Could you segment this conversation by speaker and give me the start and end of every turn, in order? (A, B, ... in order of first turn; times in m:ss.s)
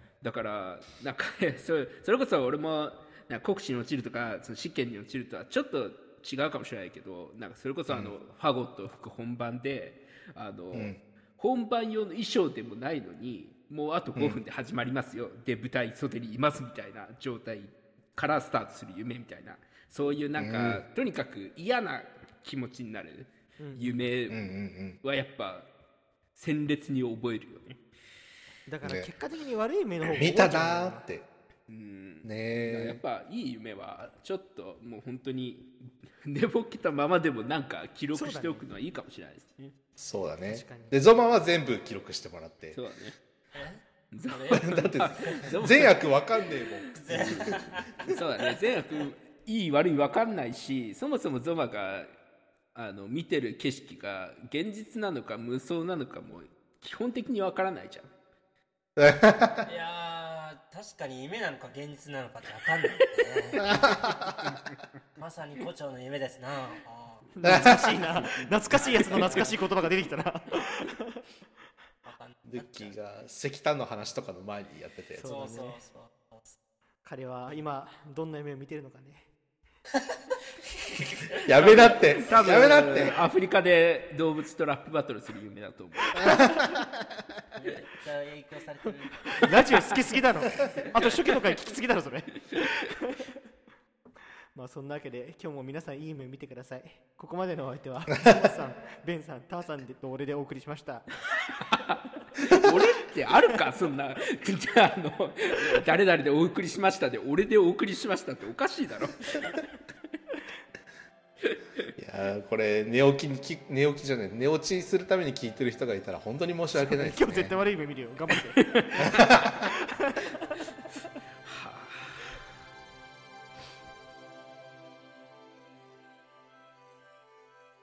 0:00.2-0:24.4 A
0:10.7-0:11.0 B
0:20.4-0:20.8 B
0:23.6-0:24.0 C
0:24.3-0:25.0 B
0:25.0-0:25.7 A
0:26.3-0:27.8 A
0:28.7-0:31.0 C
0:28.8-0:29.1 B
0:30.1-0:31.2 B
0:31.7-0:35.7 A
0:32.2-0:33.0 B
0:36.2-0:39.7 A
0:38.1-0:38.6 C
0:40.0-0:42.8 B
0:40.5-0:41.0 C
0:42.7-0:43.2 A
0:43.5-0:45.5 D
0:44.1-0:46.0 A
0:44.5-0:48.1 B
0:46.9-0:52.1 A
0:46.9-0:48.1 D
0:52.7-0:58.1 A
0:59.0-0:59.7 B
0:59.6-1:04.1 D
1:03.7-1:04.4 B
1:04.4-1:04.8 A
1:05.2-1:07.3 D
1:07.4-1:11.2 C
1:07.4-1:07.8 B
1:07.5-1:09.5 A
1:08.7-1:09.6 D
1:12.0-1:12.9 D
1:12.4-1:15.3 B
1:15.1-1:15.8 C
1:15.2-1:16.5 D
1:17.0-1:19.3 C
1:21.4-1:23.2 B
1:21.5-1:22.0 D
1:21.6-1:26.4 A
1:26.2-1:26.6 B
1:27.5-1:29.9 D
1:29.4-1:33.3 C
1:34.5-1:41.1 C
1:41.7-1:49.6 A
1:52.0-1:57.6 B
1:56.7-2:00.6 C
1:58.6-1:58.8 A
1:59.0-1:59.7 B
2:01.4-2:02.4 A